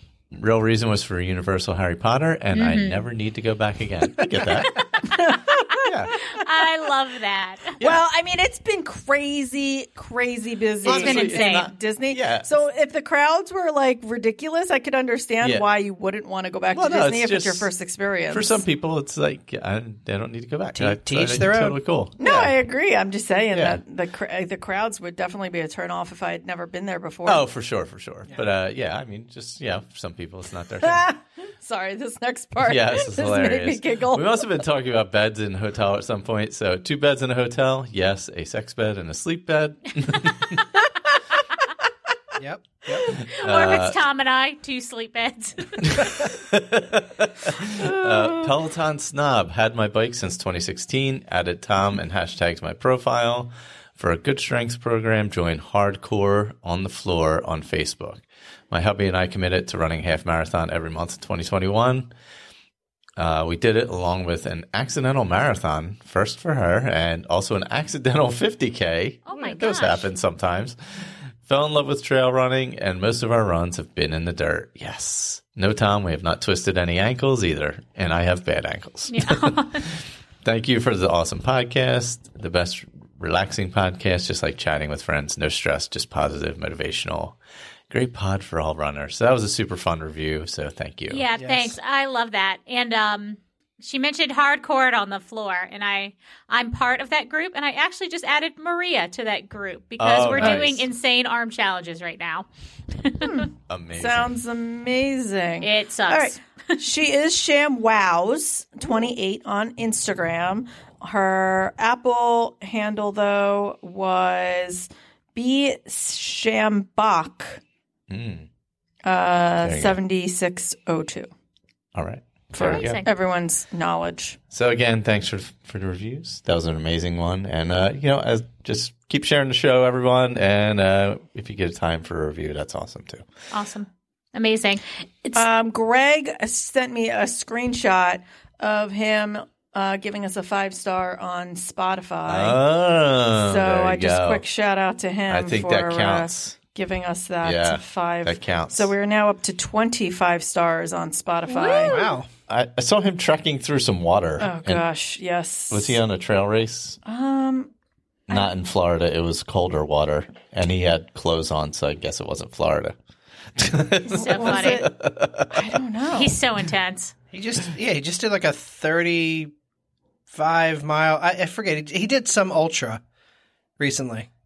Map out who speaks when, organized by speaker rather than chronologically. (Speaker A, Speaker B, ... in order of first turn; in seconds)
Speaker A: 0.3-4.8, 5.8-6.2, 10.8-12.5, 16.7-17.7, 18.3-22.5, 23.5-23.8, 27.2-31.1, 32.6-40.6, 43.1-44.0, 45.8-62.1, 63.2-70.8, 71.4-79.6, 80.4-87.4, 87.9-91.2, 100.0-100.9, 103.7-104.3, 118.1-118.5, 119.6-120.0, 122.0-123.0, 124.5-133.2, 142.3-144.4, 145.3-146.6, 147.4-148.9, 152.5-154.8, 155.7-157.0, 158.3-162.9, 163.6-165.6
Speaker B: 2.5-3.0, 6.2-7.8, 10.8-11.7, 43.3-46.0, 69.3-70.1, 79.1-79.9, 91.1-103.5, 105.6-106.4, 122.6-123.1, 133.5-135.5, 151.5-152.2, 164.1-164.8, 166.1-167.1
Speaker C: 5.0-6.3, 7.8-18.6, 22.2-27.4, 30.8-34.4, 100.4-100.6, 103.2-117.6, 119.0-121.3, 122.5-124.4, 135.3-142.6, 143.4-152.1, 154.4-156.0, 157.0-157.7, 164.1-164.9, 165.5-166.3
Speaker D: 20.8-21.8, 42.4-43.1, 91.4-91.8, 151.8-152.3, 167.3-169.5, 170.3-173.0, 173.8-174.3